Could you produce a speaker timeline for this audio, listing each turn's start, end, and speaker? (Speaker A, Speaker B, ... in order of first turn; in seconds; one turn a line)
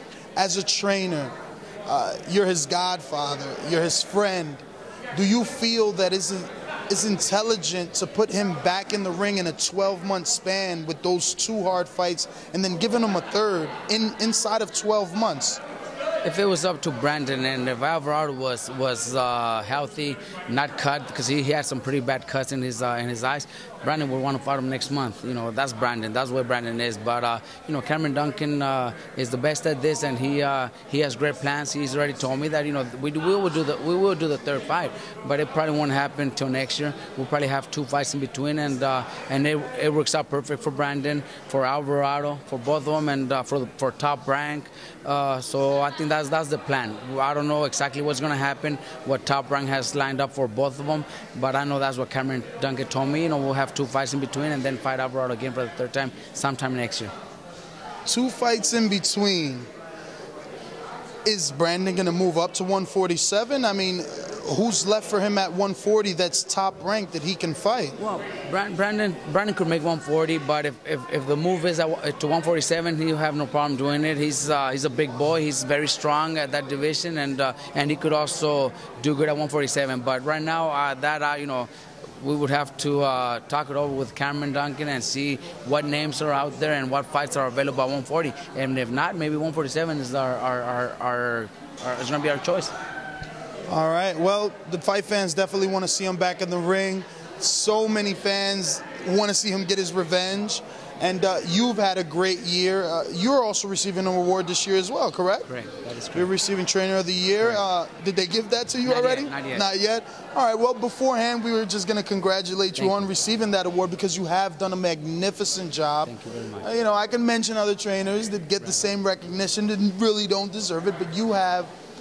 Speaker A: 0.4-1.3
Speaker A: 1.9-4.6
Speaker A: 5.2-15.6
Speaker B: 16.2-57.1
Speaker A: 58.1-59.7
Speaker A: 61.2-68.0
Speaker B: 68.0-92.7
Speaker A: 93.7-105.5
Speaker B: 105.5-106.3
Speaker A: 106.2-121.7
Speaker B: 108.8-109.7
Speaker B: 112.8-113.1
Speaker B: 116.0-116.7
Speaker B: 118.6-118.9